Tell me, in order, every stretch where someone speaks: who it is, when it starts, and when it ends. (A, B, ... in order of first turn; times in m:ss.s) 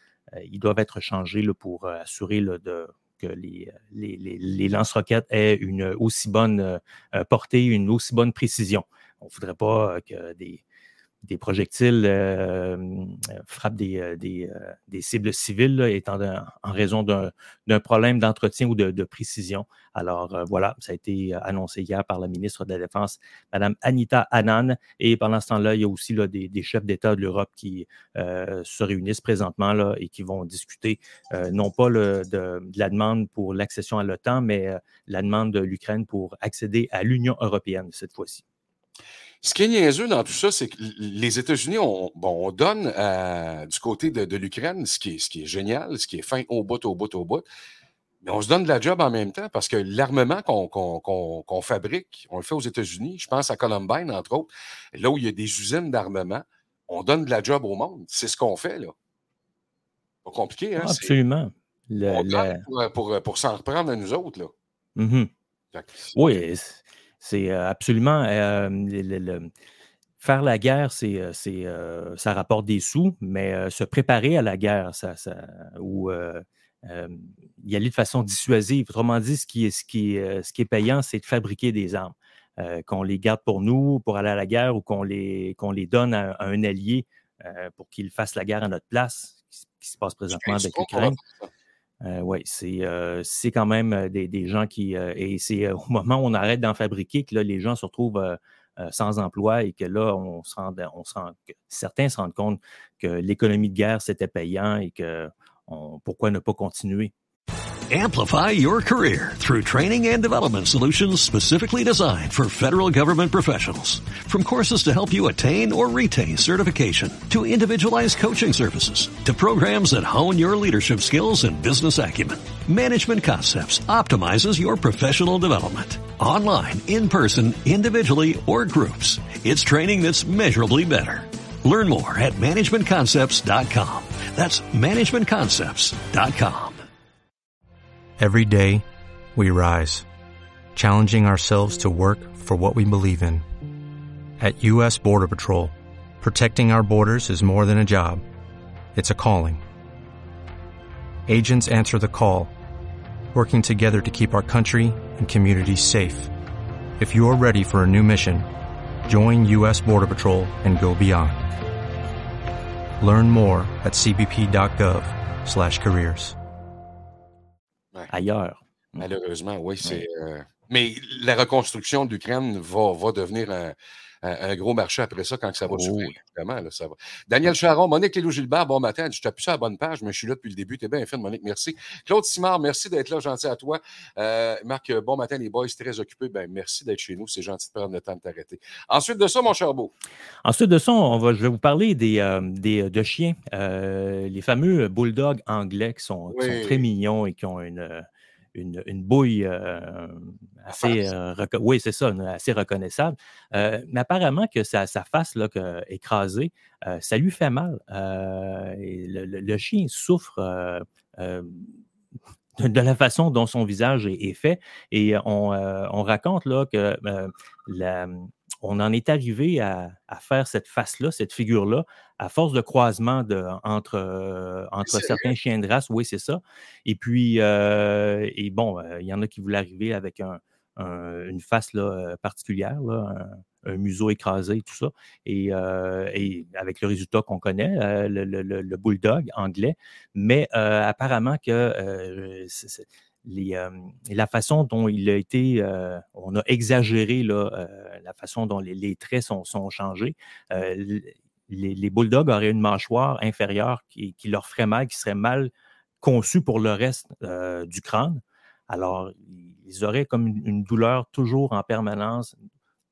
0:00.4-0:10.6 A
0:11.2-0:38.4 A
0:39.4-0:47.4 B
0:48.2-0:58.9 B
1:00.2-1:01.1 B
1:00.8-1:02.6 A
1:02.1-1:04.5 B
1:05.0-1:05.3 A
1:05.7-1:06.4 B
1:06.2-1:09.5 A
1:10.2-1:31.2 A
1:30.3-1:31.5 B
1:32.0-1:47.1 A
1:47.9-2:16.8 C
2:18.2-2:20.1 D
2:20.8-2:23.4 D
2:24.4-2:28.2 D
2:29.0-2:29.6 D
2:31.3-2:32.5 D
2:33.3-2:36.3 D
2:37.0-2:38.5 D
2:39.1-2:41.4 D
2:43.0-2:46.4 D
2:48.1-2:49.1 A
2:49.0-3:09.9 B
2:55.7-2:56.2 A
3:10.4-3:31.8 A
3:16.3-3:16.8 B
3:20.7-3:21.0 B
3:32.6-4:22.3 A
3:44.8-3:45.3 B